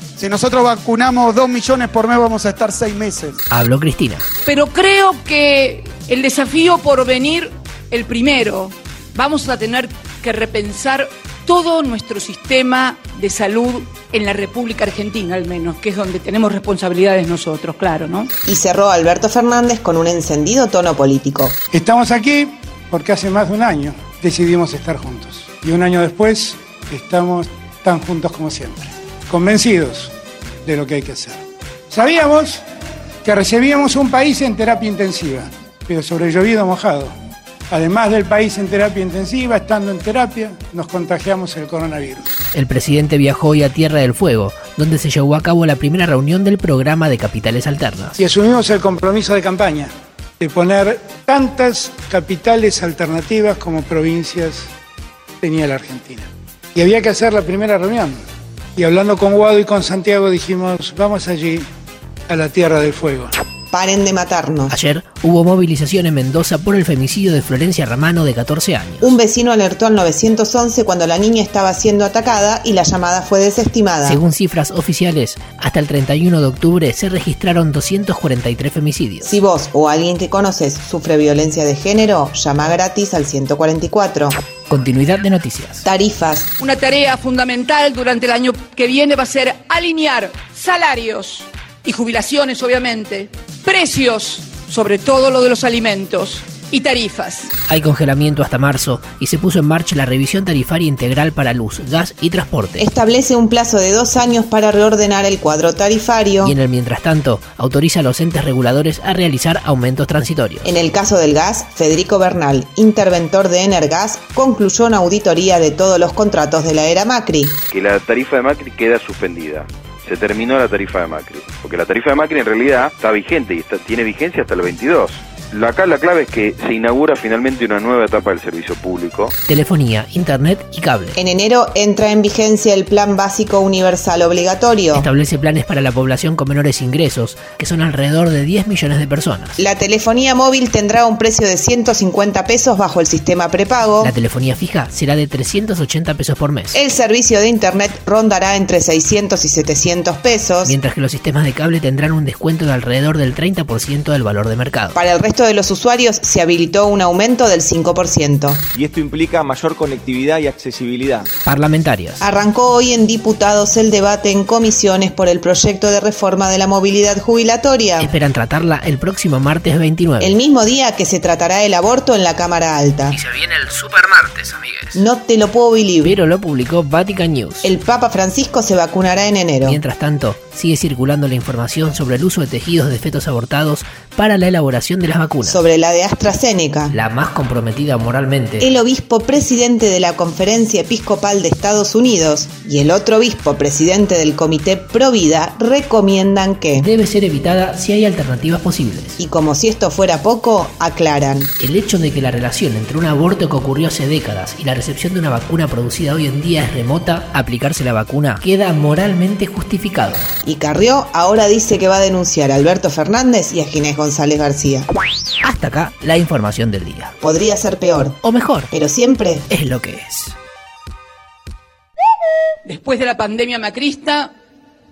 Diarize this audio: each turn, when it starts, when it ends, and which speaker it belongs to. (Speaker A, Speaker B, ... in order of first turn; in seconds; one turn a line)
Speaker A: 0.2-3.4
Speaker B: 3.5-4.3
Speaker C: 4.5-18.3
Speaker D: 18.4-21.6
Speaker E: 21.7-30.1
Speaker E: 30.6-32.6
Speaker E: 33.2-37.1
Speaker E: 37.7-42.4
Speaker B: 42.5-48.2
Speaker E: 48.2-54.7
Speaker E: 55.4-58.2
Speaker E: 58.8-61.7
Speaker E: 62.3-63.3
Speaker D: 63.7-64.8
Speaker B: 64.7-69.2
Speaker D: 69.0-74.2
Speaker B: 74.0-79.3
Speaker D: 79.2-84.4
Speaker B: 84.7-85.8
Speaker D: 85.8-86.5
Speaker C: 86.6-97.5
Speaker B: 97.7-102.8
Speaker D: 102.8-106.5
Speaker B: 106.4-110.8
Speaker D: 110.6-117.6
Speaker F: 117.7-129.3
Speaker B: 129.5-131.2
Speaker D: 131.2-135.1
Speaker B: 134.9-139.6
Speaker D: 139.6-144.1
Speaker B: 144.0-146.8
Speaker D: 146.7-150.8
Speaker B: 150.7-155.0
Speaker D: 154.9-158.7
Speaker G: 158.7-161.3
Speaker B: 161.5-162.2
Speaker D: 162.2-168.1
Speaker B: 168.0-170.4
Speaker D: 170.2-173.2
Speaker B: 173.1-175.0
Speaker D: 175.0-176.2
Speaker B: 176.0-177.7
Speaker D: 177.6-179.8
Speaker B: 179.6-185.6
Speaker D: 185.4-187.0
Speaker B: 186.9-188.7
Speaker D: 188.6-196.9
Speaker B: 196.8-199.2
Speaker D: 199.2-201.5
Speaker B: 201.6-210.3
Speaker D: 210.4-214.9
Speaker B: 215.4-217.2
Speaker D: 217.2-219.5
Speaker B: 218.2-218.7
Speaker B: 219.5-220.4
Speaker C: 222.7-224.3